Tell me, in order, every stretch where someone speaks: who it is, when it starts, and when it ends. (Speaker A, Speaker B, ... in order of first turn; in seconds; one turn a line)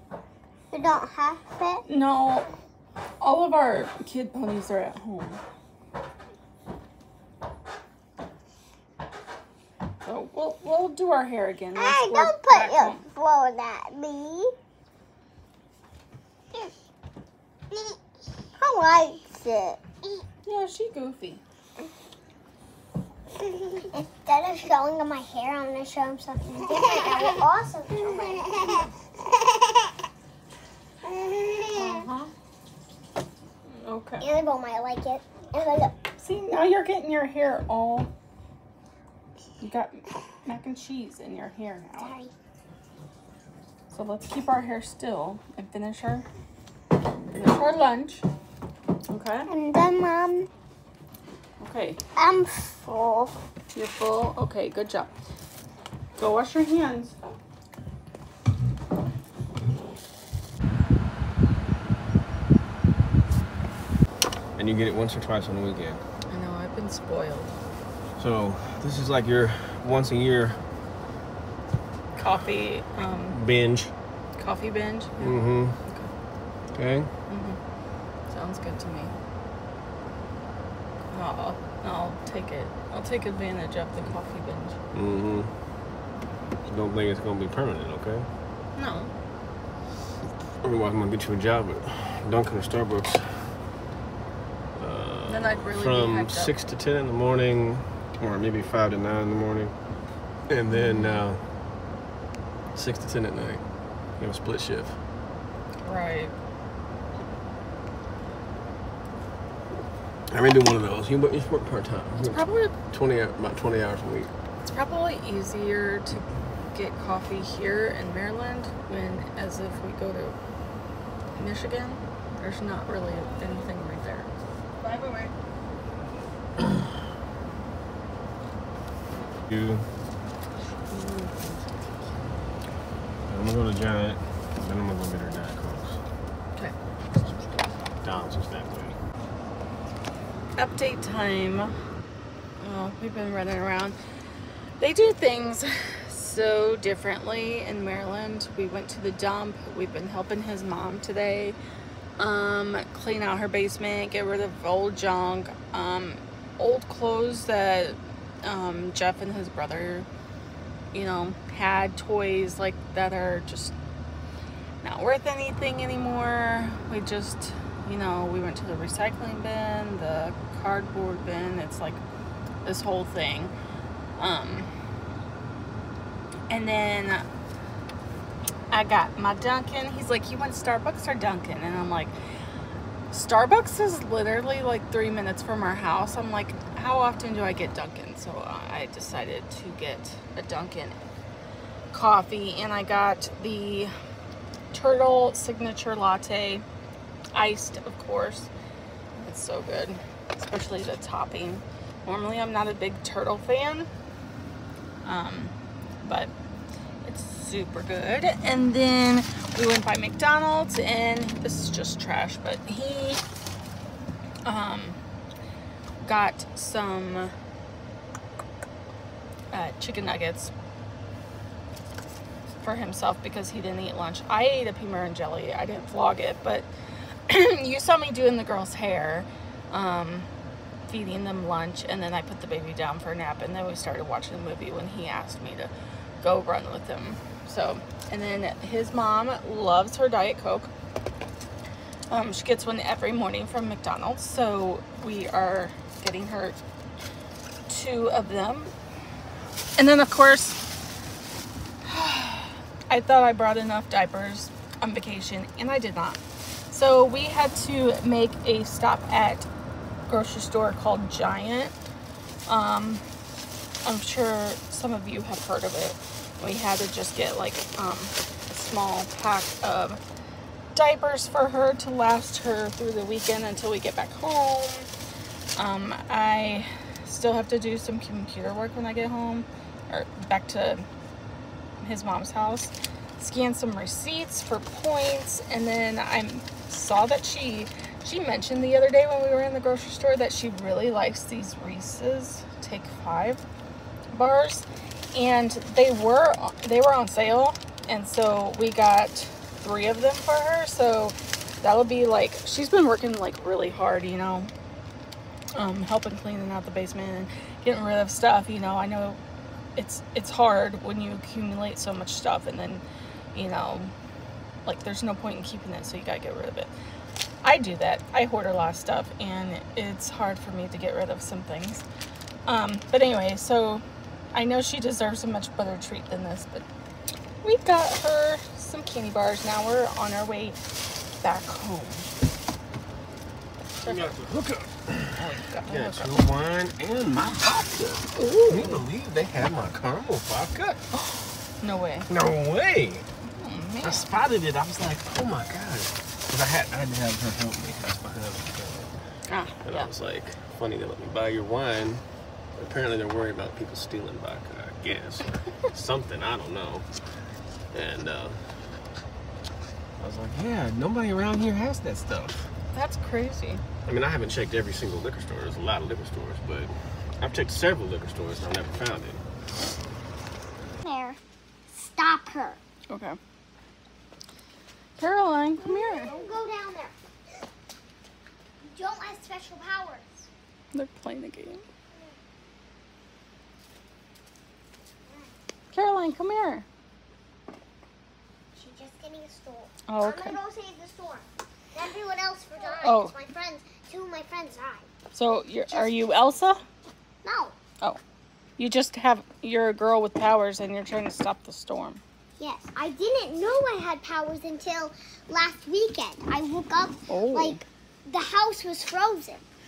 Speaker A: 0.7-1.8
Speaker B: 1.9-2.5
Speaker B: 3.2-5.4
Speaker B: 10.0-13.0
Speaker A: 11.8-14.5
Speaker A: 18.6-20.2
Speaker B: 20.4-21.4
Speaker A: 23.7-28.9
Speaker B: 28.1-28.8
Speaker A: 31.0-32.1
Speaker B: 31.7-32.3
Speaker B: 33.7-34.3
Speaker A: 34.2-36.0
Speaker B: 36.2-38.1
Speaker B: 39.6-42.2
Speaker A: 42.0-42.3
Speaker B: 43.9-46.3
Speaker B: 47.3-48.2
Speaker B: 49.1-49.5
Speaker A: 49.5-50.5
Speaker B: 51.6-52.0
Speaker A: 52.2-53.4
Speaker B: 53.7-55.1
Speaker B: 56.2-57.2
Speaker C: 64.6-66.0
Speaker B: 66.3-67.5
Speaker C: 68.2-70.6
Speaker B: 72.2-73.4
Speaker C: 73.3-73.9
Speaker B: 74.4-76.1
Speaker C: 75.2-75.8
Speaker C: 76.7-77.1
Speaker B: 77.3-77.6
Speaker B: 78.3-79.1
Speaker B: 81.1-84.8
Speaker C: 84.9-85.5
Speaker C: 86.6-88.3
Speaker B: 88.8-89.1
Speaker C: 90.6-93.6
Speaker C: 94.8-99.7
Speaker B: 95.3-96.5
Speaker C: 100.5-101.4
Speaker B: 100.7-101.2
Speaker C: 102.7-103.6
Speaker C: 104.2-105.0
Speaker B: 105.8-106.3
Speaker C: 110.3-114.3
Speaker B: 112.2-112.8
Speaker B: 114.6-120.4
Speaker B: 121.3-125.3
Speaker C: 129.5-129.9
Speaker B: 130.9-131.7
Speaker C: 133.3-136.0
Speaker C: 138.0-139.0
Speaker B: 140.6-141.8
Speaker B: 142.6-144.0
Speaker B: 144.8-151.6
Speaker B: 152.2-160.1
Speaker B: 160.9-163.7
Speaker B: 164.8-172.0
Speaker B: 172.6-173.5
Speaker B: 174.2-174.7
Speaker B: 176.5-177.3
Speaker B: 178.7-182.2
Speaker B: 183.1-191.0
Speaker B: 191.9-193.9
Speaker B: 194.7-196.6
Speaker B: 197.3-198.5
Speaker B: 199.2-203.9
Speaker B: 205.0-206.3
Speaker B: 207.0-213.2
Speaker B: 214.4-215.0
Speaker B: 216.0-217.3
Speaker B: 219.5-220.5
Speaker B: 222.6-226.7
Speaker B: 227.3-230.3
Speaker B: 230.9-240.7
Speaker B: 242.1-246.6
Speaker B: 247.7-248.7
Speaker B: 249.8-250.6
Speaker B: 251.8-259.5
Speaker B: 260.1-261.8
Speaker B: 262.5-263.1
Speaker B: 263.9-270.0
Speaker B: 270.8-274.9
Speaker B: 275.6-280.9
Speaker B: 281.8-293.4
Speaker B: 294.1-304.5
Speaker B: 305.6-309.2
Speaker B: 309.8-312.8
Speaker B: 313.3-313.9
Speaker B: 314.6-316.7
Speaker B: 317.4-321.8
Speaker B: 322.5-326.7
Speaker B: 327.4-330.6
Speaker B: 331.2-332.1
Speaker B: 333.8-334.1
Speaker C: 333.9-340.8
Speaker B: 335.1-336.2
Speaker B: 338.1-338.8
Speaker B: 340.9-342.1
Speaker C: 342.1-343.1
Speaker B: 343.3-344.1
Speaker C: 343.8-348.9
Speaker B: 349.3-349.9
Speaker C: 349.6-356.9
Speaker C: 357.7-358.5
Speaker C: 360.0-362.5
Speaker B: 362.7-363.6
Speaker C: 363.9-369.2
Speaker A: 370.8-371.2
Speaker A: 371.7-372.6
Speaker B: 372.9-373.2
Speaker B: 375.0-376.1
Speaker A: 375.6-376.9
Speaker A: 378.6-380.3
Speaker B: 380.7-381.6
Speaker B: 385.7-386.6
Speaker A: 388.5-394.9
Speaker B: 389.9-390.4
Speaker B: 392.8-393.1
Speaker B: 395.1-396.6
Speaker A: 397.2-397.6
Speaker B: 398.6-402.0
Speaker A: 402.4-409.4
Speaker B: 407.1-407.6